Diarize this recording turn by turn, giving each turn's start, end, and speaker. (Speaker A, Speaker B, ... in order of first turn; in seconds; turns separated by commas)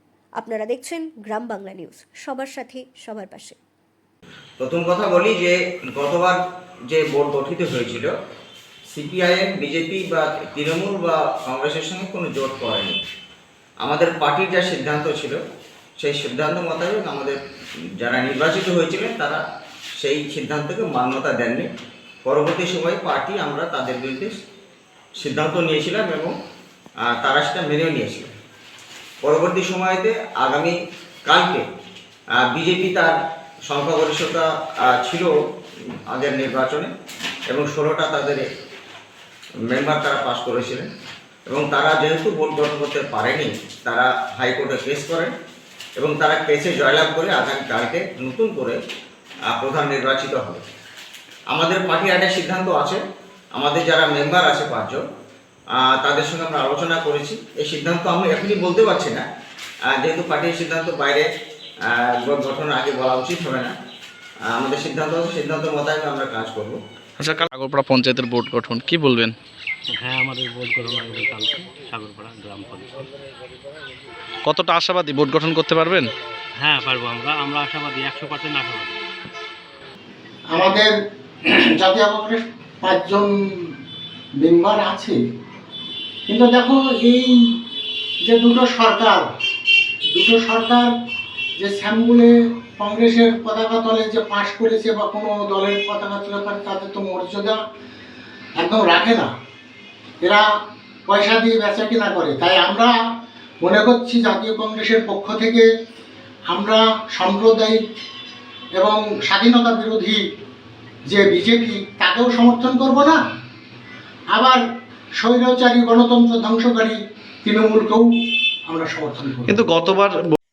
Speaker A: 0.4-3.6, Speaker B: 4.6-6.4, Speaker B: 6.9-8.1, Speaker B: 8.9-13.0, Speaker B: 13.8-15.4, Speaker B: 16.0-17.4, Speaker B: 18.0-19.4, Speaker B: 20.0-21.7, Speaker B: 22.2-24.4, Speaker B: 25.2-26.3, Speaker B: 27.1-28.3, Speaker B: 29.2-30.8, Speaker B: 31.3-31.6, Speaker B: 32.4-33.2, Speaker B: 33.7-35.3, Speaker B: 36.1-36.9, Speaker B: 37.5-38.5, Speaker B: 39.7-40.9, Speaker B: 41.5-45.3, Speaker B: 46.0-48.8, Speaker B: 49.5-50.6, Speaker B: 51.5-53.0, Speaker B: 53.6-55.0, Speaker B: 55.8-59.2, Speaker B: 59.9-61.3, Speaker B: 61.9-63.7, Speaker B: 64.5-66.8, Speaker C: 67.2-69.3, Speaker D: 69.9-73.1, Speaker C: 74.5-76.1, Speaker D: 76.6-79.0, Speaker E: 80.5-80.9, Speaker E: 81.8-83.3, Speaker E: 84.4-85.2, Speaker E: 86.3-87.3, Speaker E: 88.3-89.2, Speaker E: 90.1-90.9, Speaker E: 91.6-97.6, Speaker E: 98.6-99.3, Speaker E: 101.1-102.9, Speaker E: 103.6-105.7, Speaker E: 106.5-107.8, Speaker E: 108.8-110.2, Speaker E: 111.1-113.2, Speaker E: 114.3-114.6, Speaker E: 115.2-118.0, Speaker E: 118.7-119.6, Speaker C: 119.5-120.4